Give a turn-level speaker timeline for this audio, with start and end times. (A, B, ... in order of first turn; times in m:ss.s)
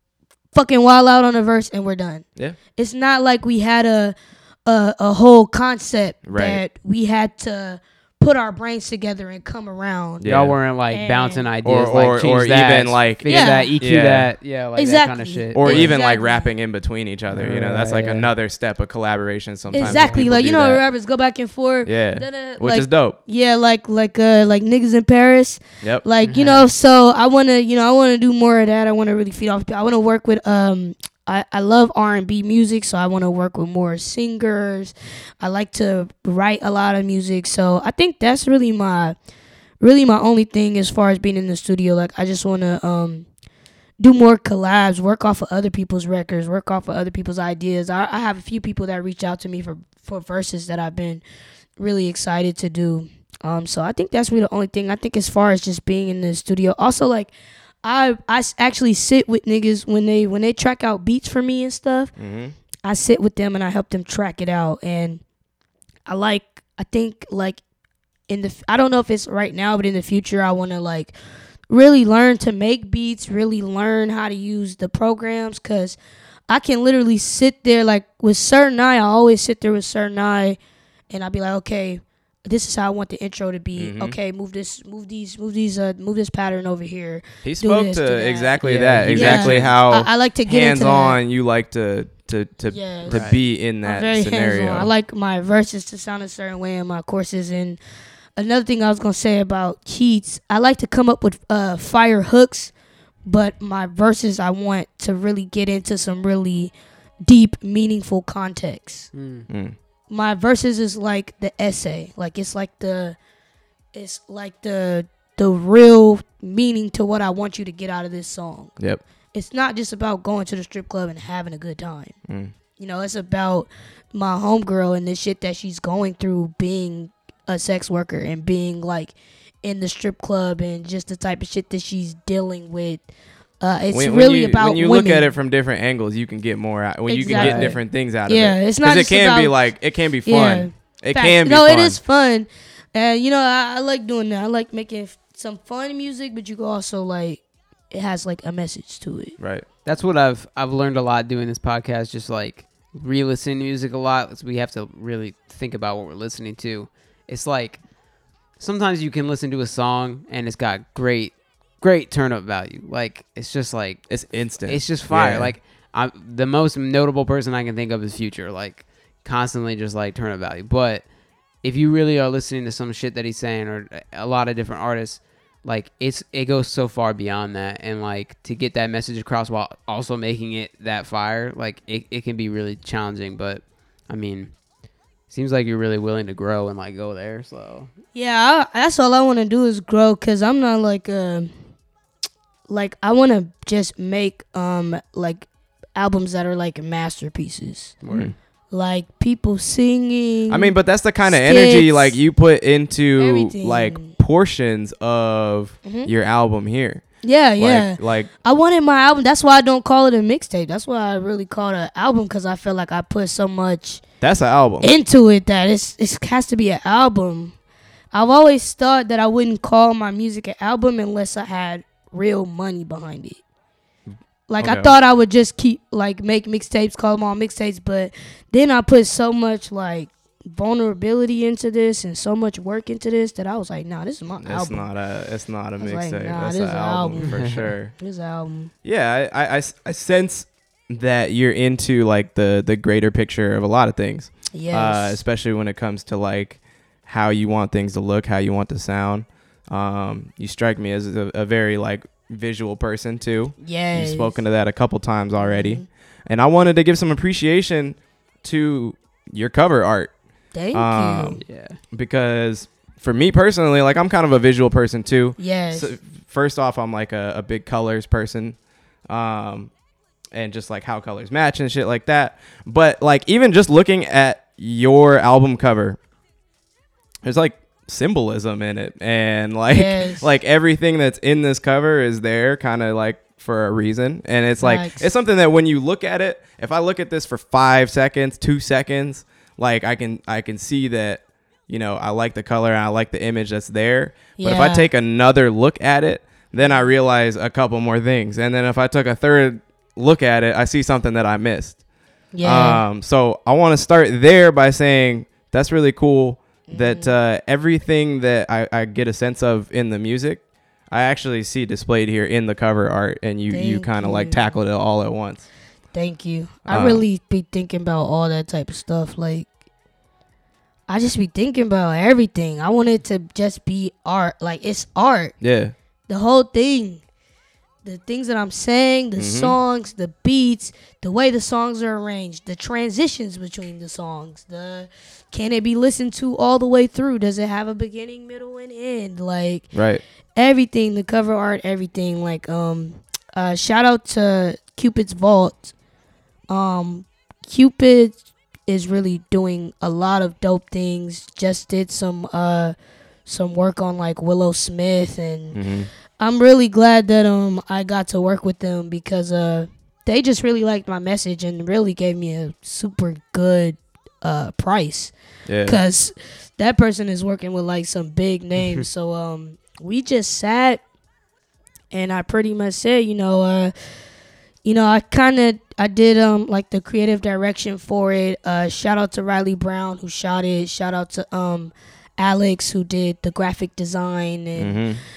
0:00.5-0:02.2 A
0:02.8-0:10.2 A
0:06.2-0:06.6 B
0:10.2-0:10.6 B
0:10.3-0:15.9 C
0:10.9-0:11.5 A
0:11.6-0:14.3 B
0:13.3-0:13.7 A
0:14.8-0:16.5 A
0:15.6-0:20.8 B
0:17.3-0:18.3 C
0:19.7-0:39.2 A
0:19.8-0:20.2 C
0:21.8-0:23.2 B
0:26.2-0:26.7 C
0:39.8-0:43.3 A
0:44.0-0:51.2 A
0:51.8-0:57.3 A
0:57.8-1:02.1 A
1:02.2-1:02.6 B
1:02.8-1:05.2 A
1:06.1-1:07.6 A
1:08.3-1:11.1 A
1:11.7-1:16.0 A
1:16.5-1:20.6 A
1:21.1-1:28.6 A
1:23.8-1:24.2 B
1:27.4-1:34.9 B
1:28.6-1:29.7 C
1:29.1-1:31.2 A
1:32.7-1:33.2 A
1:33.1-1:33.4 C
1:33.8-1:37.8 A
1:38.4-1:42.7 A
1:43.3-1:46.7 A
1:47.2-1:49.1 A
1:49.1-1:49.5 C
1:49.5-1:49.8 B
1:50.1-1:53.2 A
1:53.9-1:58.7 A
1:59.3-2:02.2 A
2:02.3-2:02.5 B
2:02.8-2:13.0 A
2:13.6-2:15.3 A
2:13.9-2:22.0 B
2:17.1-2:19.6 A
2:17.3-2:17.7 C
2:20.3-2:29.4 A
2:29.4-2:29.7 B
2:29.8-2:37.8 C
2:38.6-2:51.1 C
2:44.1-2:45.6 B
2:51.6-3:04.5 C
3:05.3-3:07.9 C
3:08.1-3:11.5 A
3:12.7-3:18.0 A
3:18.0-3:18.3 C
3:18.1-3:18.4 B
3:18.7-3:22.2 A
3:20.5-3:27.1 B
3:23.2-3:24.2 A
3:25.8-3:26.1 A
3:27.2-3:34.0 A
3:27.6-3:28.3 B
3:34.2-3:34.9 B
3:34.8-3:37.6 A
3:38.1-3:43.4 A
3:44.5-3:54.9 A
3:44.6-3:44.9 B
3:54.4-3:57.9 B
3:55.8-3:57.4 A
3:57.3-3:57.7 C
3:58.0-3:58.7 A
3:58.8-4:20.2 B
4:04.5-4:05.2 A
4:13.6-4:14.4 A
4:15.4-4:15.9 A
4:20.5-4:21.4 A
4:20.7-4:21.4 B
4:21.4-4:21.8 C
4:21.9-4:28.6 B
4:25.4-4:25.9 A
4:29.1-4:29.7 B
4:30.3-4:36.0 B
4:37.2-5:01.8 B
4:39.7-4:40.3 A
4:44.6-4:45.1 A
4:54.4-4:54.9 A
5:02.3-5:02.8 A
5:02.4-5:15.4 B
5:06.7-5:07.1 A
5:13.5-5:14.5 A
5:15.9-5:19.5 A
5:16.7-5:17.0 B
5:20.9-5:25.3 A
5:25.4-5:25.7 B
5:26.1-5:27.0 A
5:27.8-5:39.7 A
5:29.2-5:29.6 B
5:39.7-5:40.0 B
5:40.4-5:45.7 A
5:46.5-5:52.8 A
5:53.3-5:55.6 A
5:55.5-5:55.9 B
5:56.2-6:05.1 A
6:05.5-6:05.8 B
6:05.6-6:10.8 A
6:11.9-6:13.7 A
6:14.6-6:24.8 A
6:24.6-6:25.0 B